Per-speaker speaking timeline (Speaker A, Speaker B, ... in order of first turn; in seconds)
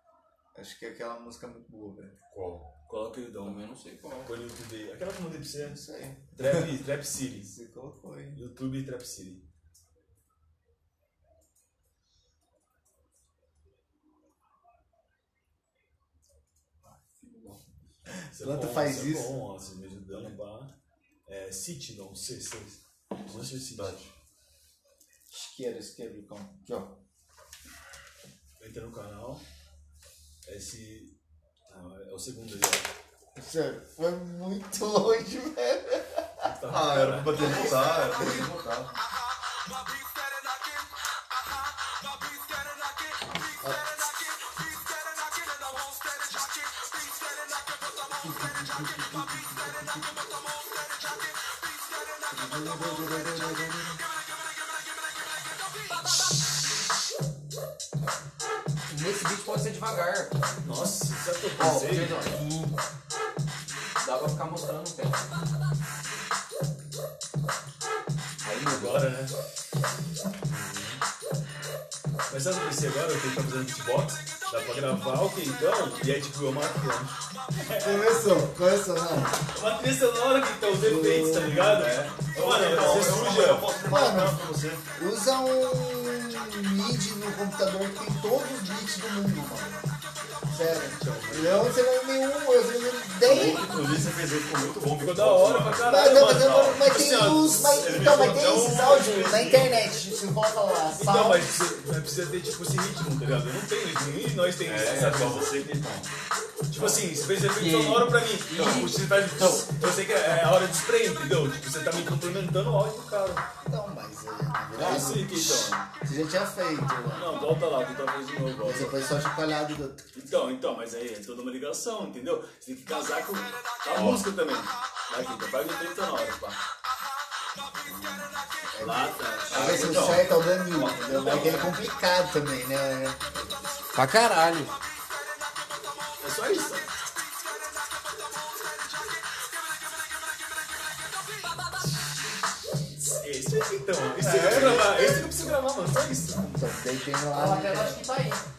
Speaker A: 0.5-2.1, 5.6-6.8, 7.4-8.4, 18.1-19.4, 20.1-20.4, 25.3-27.0, 33.3-36.5, 37.4-38.5, 43.5-44.1, 48.6-50.0, 52.3-54.0, 77.8-79.4, 80.7-81.6, 83.8-89.9, 90.5-94.1, 95.8-101.7, 113.6-117.6, 118.6-120.0, 128.7-133.7, 144.2-148.0
Speaker B: 2.3-2.7, 23.7-24.1, 36.7-38.9, 81.5-84.8, 93.2-99.9, 104.6-106.1, 106.8-107.0, 108.6-109.2, 123.9-124.2, 127.9-128.4, 129.5-131.7
Speaker C: 2.9-3.6, 4.2-5.8, 6.3-7.5, 8.3-9.4, 18.3-20.7, 21.2-24.0, 28.6-29.4, 30.4-31.1, 31.7-32.9, 36.4-37.7, 60.6-62.4, 68.6-69.3, 70.5-71.0, 72.3-78.4, 79.5-83.7, 90.5-91.8, 95.0-99.5, 100.9-105.6, 106.7-113.4, 114.7-115.8, 117.1-119.0, 120.1-126.6, 128.8-131.7, 136.2-136.9, 143.0-146.4
Speaker D: 3.4-4.3, 17.2-17.6, 58.9-60.4, 61.6-62.7, 64.0-65.3, 68.4-69.0, 107.5-109.7, 133.9-134.8, 147.3-148.4